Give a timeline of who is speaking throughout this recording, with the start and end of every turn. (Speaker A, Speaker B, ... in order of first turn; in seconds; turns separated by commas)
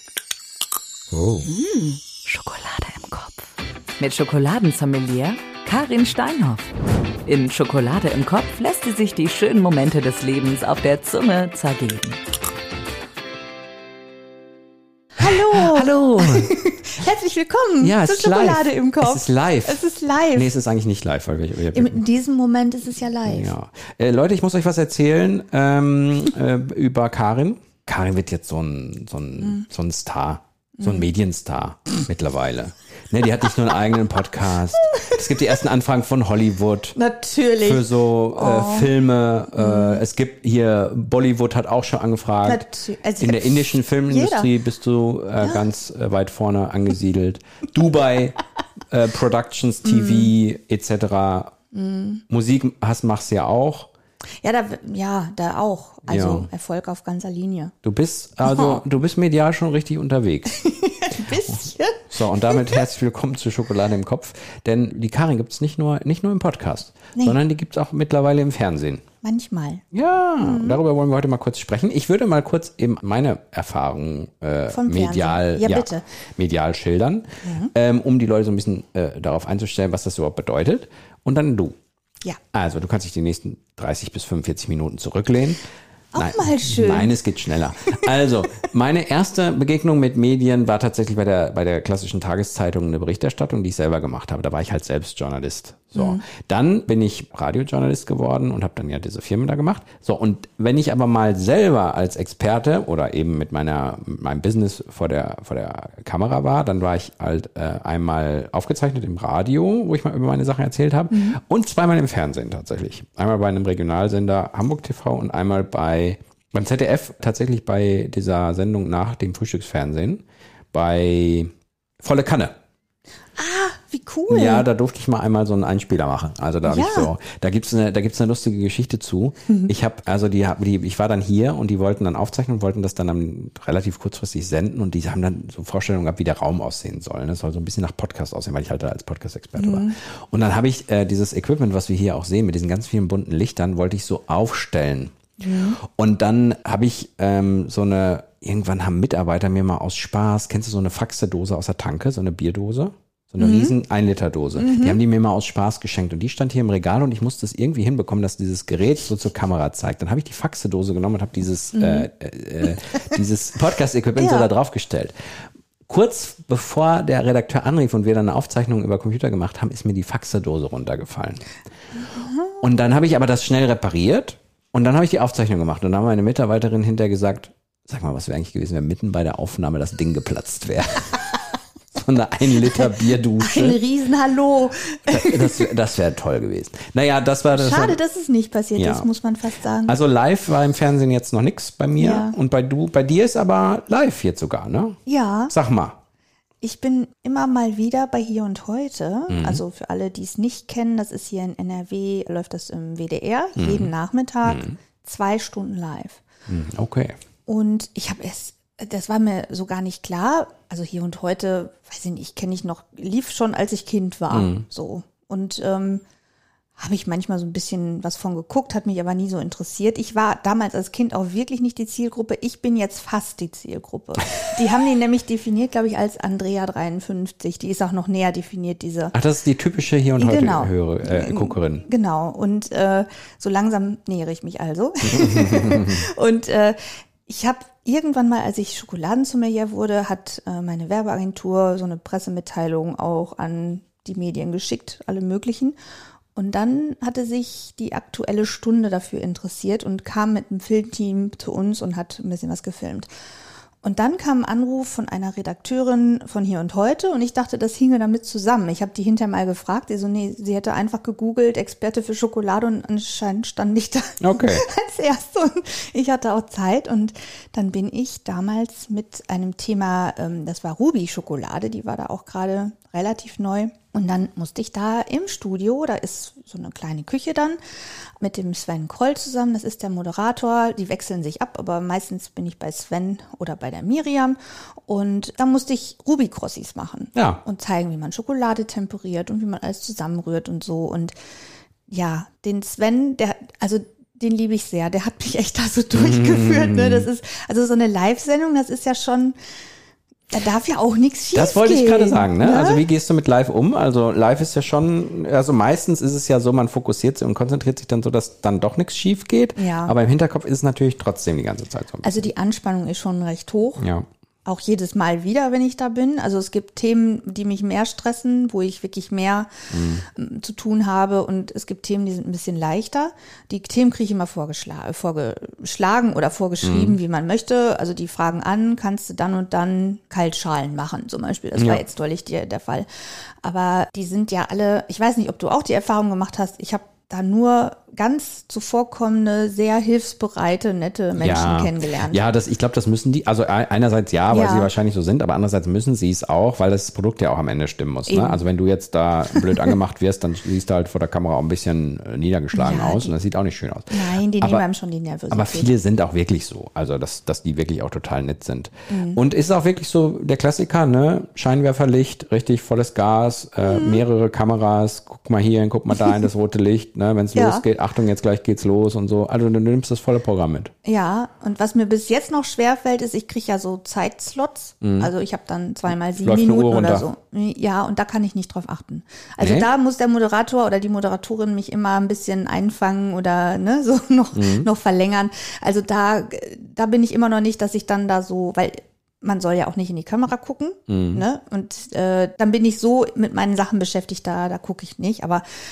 Speaker A: 1.4-6.7, Speaker A: 7.2-12.2, Speaker B: 15.2-20.5, Speaker C: 15.2-16.6, Speaker C: 17.8-22.0, Speaker B: 21.7-23.5, Speaker C: 23.2-37.0, Speaker B: 30.8-31.1, Speaker B: 37.0-38.9, Speaker C: 37.6-42.7, Speaker B: 39.6-40.0, Speaker B: 42.4-44.5, Speaker C: 43.2-48.4, Speaker B: 45.4-45.7, Speaker C: 48.9-51.5, Speaker B: 49.8-50.3, Speaker B: 51.7-52.2, Speaker C: 52.3-53.9, Speaker B: 54.4-57.7, Speaker C: 56.1-56.5, Speaker C: 57.8-60.6, Speaker B: 58.4-58.8, Speaker B: 60.5-62.9, Speaker C: 61.2-69.0, Speaker B: 69.2-69.8, Speaker C: 69.9-81.8, Speaker B: 70.4-70.8, Speaker B: 74.7-76.0, Speaker B: 77.4-77.7, Speaker C: 82.5-85.6, Speaker B: 86.1-87.2, Speaker C: 86.2-121.5, Speaker B: 96.0-96.2, Speaker B: 111.1-111.4, Speaker C: 122.0-122.5, Speaker B: 123.4-124.7, Speaker C: 124.3-145.1, Speaker B: 126.6-127.1, Speaker B: 139.6-139.9, Speaker B: 145.4-145.8, Speaker C: 145.8-165.1, Speaker B: 153.4-153.7, Speaker B: 154.6-155.0, Speaker B: 161.7-162.1, Speaker B: 162.7-163.1, Speaker B: 164.2-164.5, Speaker C: 165.9-171.4, Speaker B: 172.0-172.6, Speaker C: 172.6-181.4, Speaker C: 181.9-183.8, Speaker B: 182.6-185.7, Speaker C: 185.1-188.0, Speaker B: 187.5-190.0, Speaker C: 188.8-189.1, Speaker C: 189.8-195.0, Speaker B: 192.0-192.4, Speaker B: 195.1-195.5, Speaker C: 195.5-196.0, Speaker B: 196.6-206.2, Speaker C: 199.3-199.6, Speaker C: 203.6-203.9, Speaker C: 204.4-204.8, Speaker C: 206.5-207.1, Speaker B: 207.4-216.0, Speaker C: 214.3-214.6, Speaker B: 216.8-229.1, Speaker C: 229.1-231.8, Speaker B: 230.2-245.8, Speaker C: 235.1-236.0, Speaker B: 246.3-253.1, Speaker B: 253.8-277.6, Speaker C: 264.2-264.6, Speaker B: 278.2-291.1, Speaker C: 287.1-287.4, Speaker B: 291.9-299.4, Speaker C: 295.9-297.1, Speaker B: 300.3-302.8, Speaker C: 301.3-312.3, Speaker B: 309.6-309.9, Speaker B: 312.0-313.9, Speaker C: 313.8-314.1, Speaker B: 314.4-319.5, Speaker C: 319.7-320.0, Speaker B: 320.1-332.9, Speaker C: 326.6-327.0, Speaker C: 331.6-331.8, Speaker B: 333.4-342.2, Speaker C: 341.1-354.6, Speaker B: 344.3-344.7, Speaker B: 348.1-348.4, Speaker B: 349.3-349.8, Speaker B: 352.5-353.1, Speaker B: 353.9-355.7, Speaker C: 355.3-370.7, Speaker B: 358.9-359.2, Speaker B: 363.6-364.0, Speaker B: 367.3-367.6, Speaker B: 370.8-395.4, Speaker C: 374.8-375.1, Speaker C: 376.2-377.1, Speaker C: 379.4-379.7, Speaker C: 384.3-384.7, Speaker C: 390.9-391.2